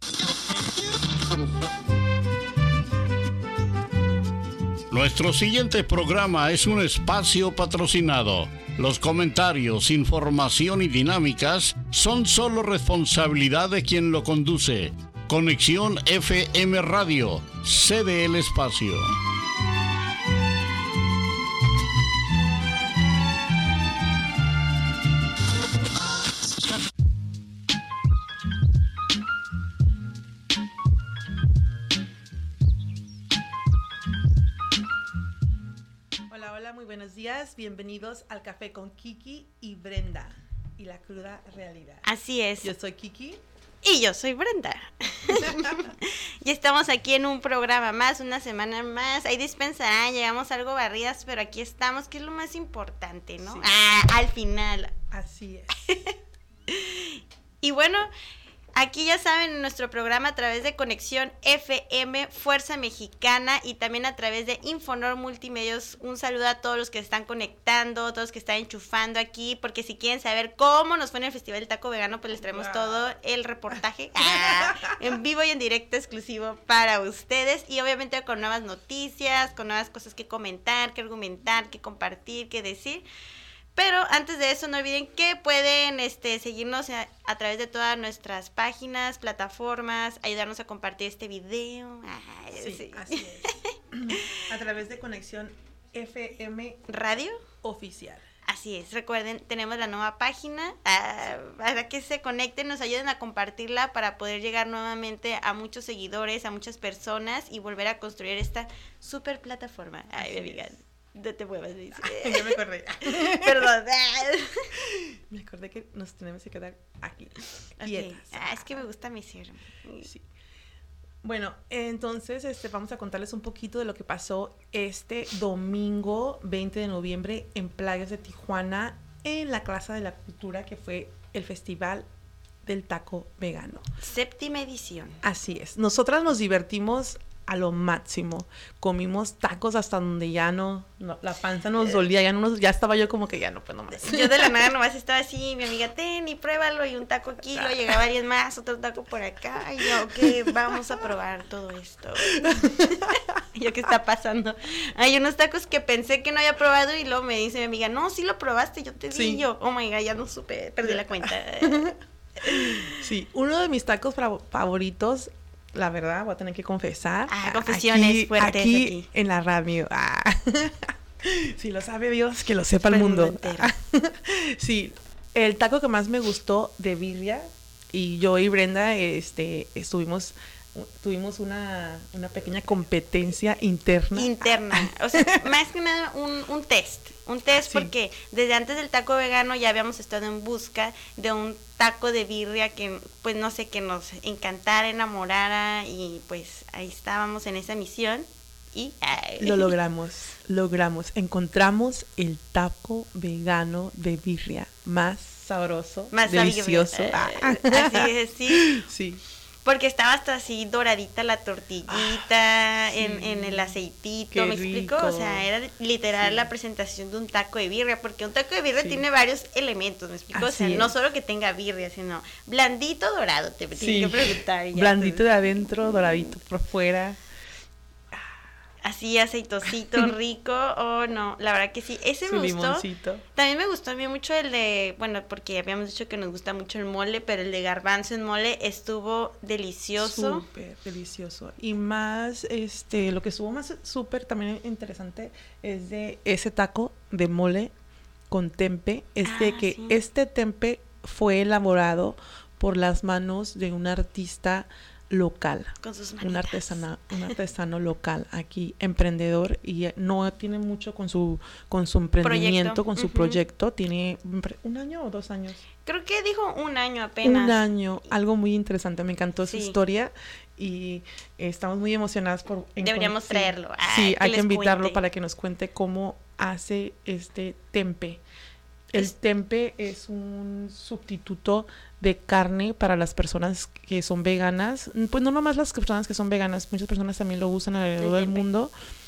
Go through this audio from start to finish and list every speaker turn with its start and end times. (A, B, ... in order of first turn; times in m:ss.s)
0:04.9-0:19.1 A
0:36.3-0:42.1 B
0:42.0-0:42.7 C
0:42.6-0:43.4 B
0:43.8-0:54.9 C
0:45.3-0:45.9 B
0:53.4-0:53.7 B
0:55.1-0:56.1 B
0:55.8-0:56.1 C
0:56.7-0:58.1 C
0:58.8-1:23.0 C
1:12.5-1:13.0 B
1:14.2-1:15.0 B
1:23.8-1:34.4 C
1:32.6-1:36.8 B
1:36.9-1:37.4 C
1:37.6-1:38.2 B
1:38.4-1:54.7 C
1:50.2-1:50.8 B
1:51.9-1:53.7 B
1:54.8-1:58.8 B
1:57.8-2:00.1 C
2:01.2-2:12.1 B
2:12.6-2:13.8 B
2:14.0-2:15.2 C
2:15.2-2:24.7 B
2:23.9-2:42.9 C
2:27.5-2:27.9 B
2:29.8-2:30.8 B
2:32.3-2:33.2 B
2:39.1-2:39.4 B
2:40.8-3:05.4 B
2:47.3-2:49.1 C
2:52.9-2:53.7 C
3:04.1-3:19.7 C
3:07.5-3:07.9 B
3:19.4-3:29.2 B
3:26.1-3:28.8 C
3:29.6-3:45.2 C
3:31.9-3:32.3 B
3:32.9-3:33.8 B
3:34.3-3:35.5 B
3:36.2-3:36.5 B
3:38.8-3:39.0 B
3:40.3-3:40.9 B
3:43.8-3:47.2 B
3:48.8-4:00.4 C
3:52.3-3:53.2 B
4:00.0-4:07.7 B
4:08.3-4:25.6 B
4:09.2-4:10.0 C
4:15.8-4:17.3 C
4:22.2-4:23.4 C
4:25.8-4:27.7 C
4:27.2-4:38.2 B
4:29.5-4:29.8 C
4:32.8-4:35.0 C
4:38.9-4:48.7 B
4:48.0-4:48.5 C